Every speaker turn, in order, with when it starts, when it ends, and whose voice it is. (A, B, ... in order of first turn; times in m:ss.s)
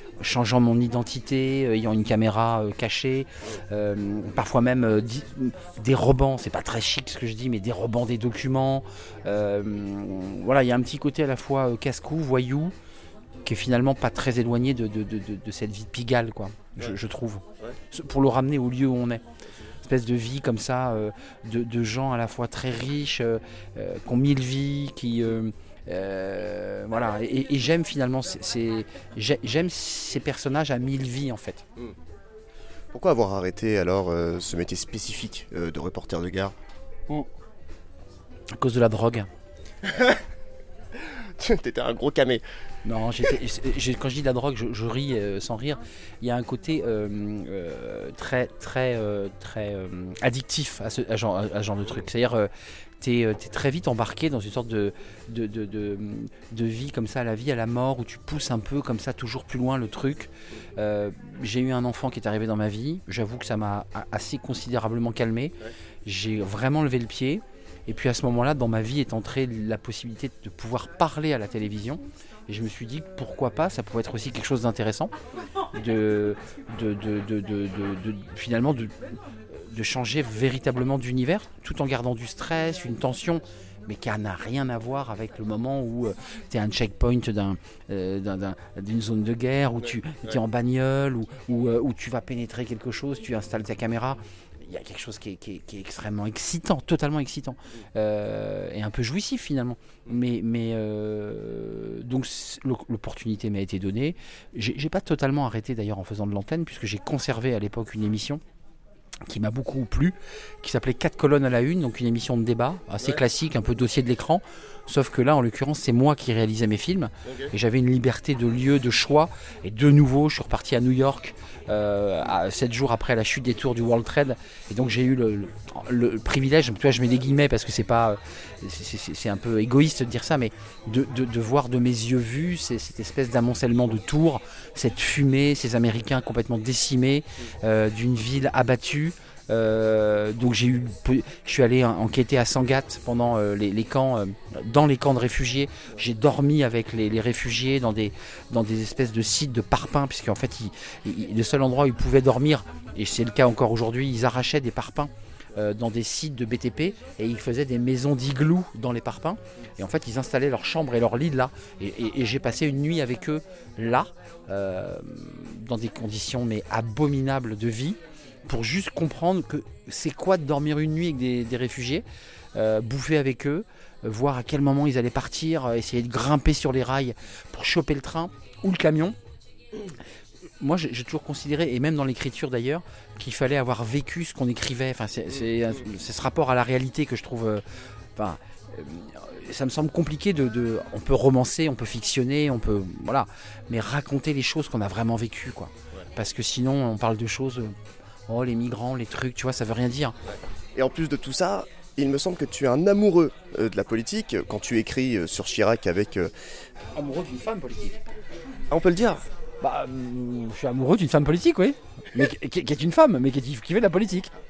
0:00.2-0:12.7 A
0:13.4-0:19.2 A
0:19.8-0:31.6 A
0:32.9-0:36.5 B
0:38.5-0:39.3 A
0:39.8-0:40.2 B
0:41.0-0:42.4 B
0:42.8-1:05.5 A
1:06.0-1:15.1 A
1:15.7-1:19.0 A
1:19.5-1:48.4 A
1:29.8-1:30.4 B
1:49.3-2:52.0 A
1:57.3-1:57.5 B
2:52.6-2:59.2 A
3:00.6-3:07.6 A
3:08.2-3:17.8 A
3:18.3-3:20.2 A
3:20.8-3:26.3 B
3:27.0-3:28.0 A
3:28.7-3:29.2 B
3:29.6-3:34.3 A